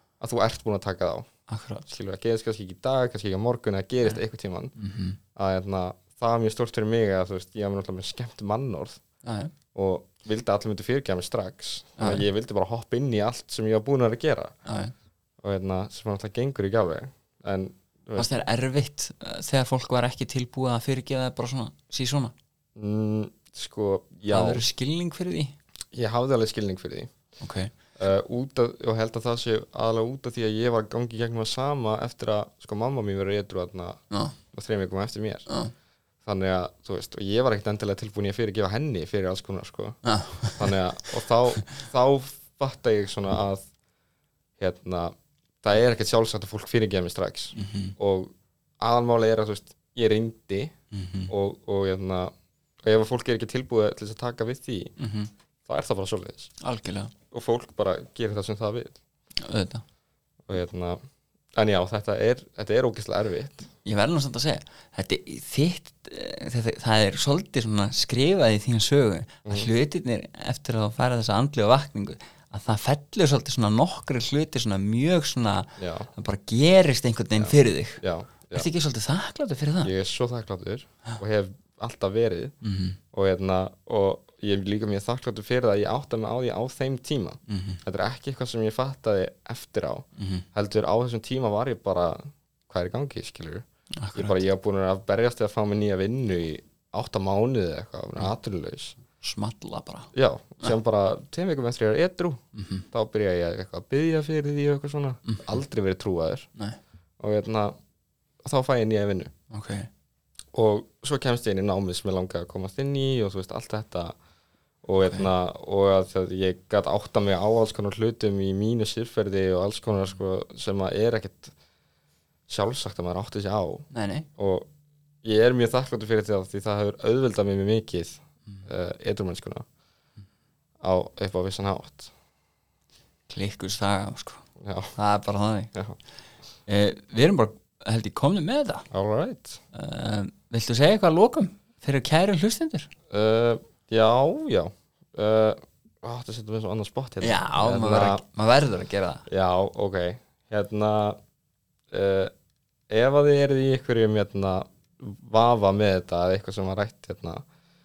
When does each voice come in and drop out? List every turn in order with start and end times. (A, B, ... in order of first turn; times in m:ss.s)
0:00.2-0:01.3 A
0:01.5-0:01.9 B
0:01.9-0:04.7 A
0:04.8-0:05.2 B
0:05.3-0:09.0 A
0:09.2-0:09.5 B
0:09.7-0:14.6 A
0:12.0-0:12.3 B
0:14.6-0:14.9 B
0:15.4-0:18.3 A
0:18.2-0:22.3 B
0:22.8-0:24.7 A
0:24.3-0:25.6 B
0:25.9-0:27.1 A
0:27.4-0:27.7 B
0:28.0-0:34.0 A
0:34.5-0:35.5 A
0:35.5-0:35.7 B
0:36.2-0:43.7 A
0:40.0-0:40.8 B
0:44.6-0:50.7 A
0:47.5-0:48.0 B
0:50.9-0:51.3 B
0:51.3-0:52.3 A
0:52.8-0:55.0 A
0:55.0-0:55.3 B
0:55.6-0:56.5 A
0:56.6-0:57.1 B
0:57.3-0:59.0 A
0:59.4-0:59.8 B
1:00.5-1:01.0 A
1:01.6-1:03.7 A
1:03.8-1:19.9 B
1:15.8-1:16.1 A
1:17.4-1:18.7 A
1:19.8-1:22.6 A
1:22.6-1:23.0 B
1:23.1-1:39.0 A
1:27.5-1:27.8 B
1:30.2-1:30.5 B
1:34.0-1:34.4 B
1:39.2-1:40.1 B
1:40.1-1:46.5 A
1:42.5-1:42.9 B
1:45.3-1:45.5 B
1:47.2-1:47.8 A
1:48.4-1:49.3 A
1:49.5-1:49.9 B
1:50.5-1:54.2 A
1:54.8-2:01.5 A
2:02.5-2:04.7 A
2:03.9-2:04.3 B
2:05.2-2:09.6 A
2:10.8-2:12.1 A
2:13.3-2:14.4 B
2:14.6-2:15.0 A
2:15.0-2:15.7 B
2:16.7-2:18.9 B
2:18.9-2:19.6 A
2:19.7-2:22.9 B
2:23.1-2:28.2 A
2:27.2-2:29.2 B
2:29.3-2:31.2 A
2:31.9-2:32.3 A
2:32.9-2:37.4 A